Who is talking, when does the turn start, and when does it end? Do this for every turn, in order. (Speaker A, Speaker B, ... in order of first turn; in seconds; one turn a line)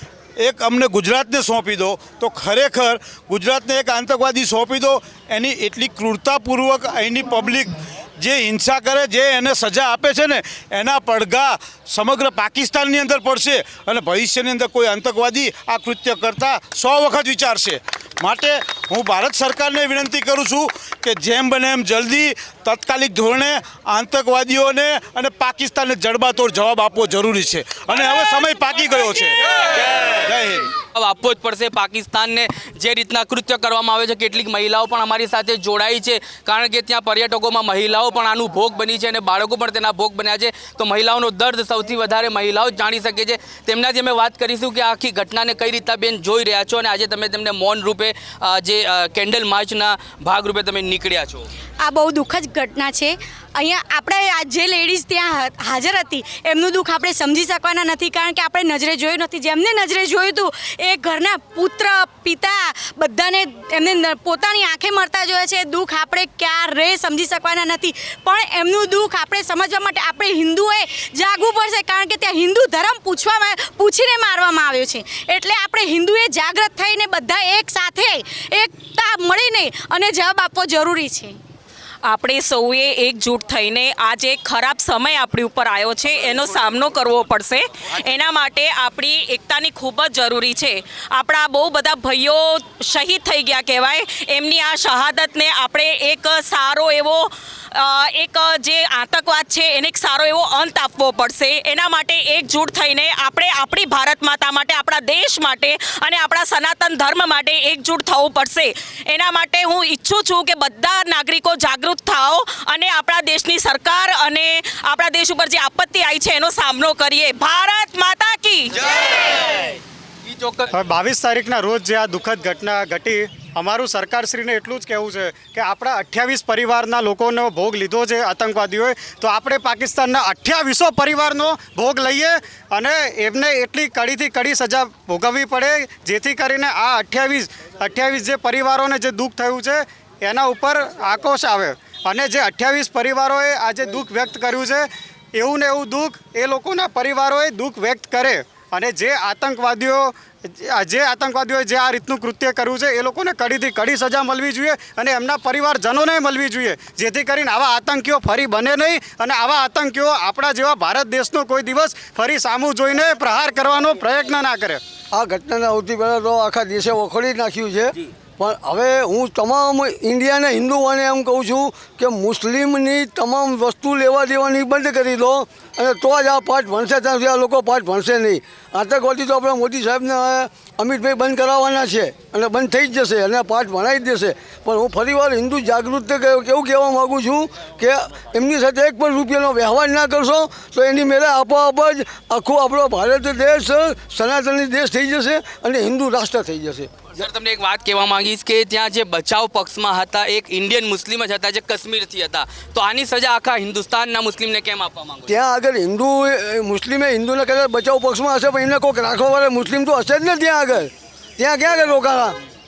Speaker A: 0.4-29.6
Speaker A: 30.2-30.7
Speaker B: 30.9-51.5
Speaker C: 51.8-81.4
Speaker D: 82.0-119.2
Speaker B: 120.2-120.8
Speaker E: 120.7-164.8
Speaker F: 165.1-197.1
Speaker B: 197.2-205.4
Speaker F: 205.3-212.4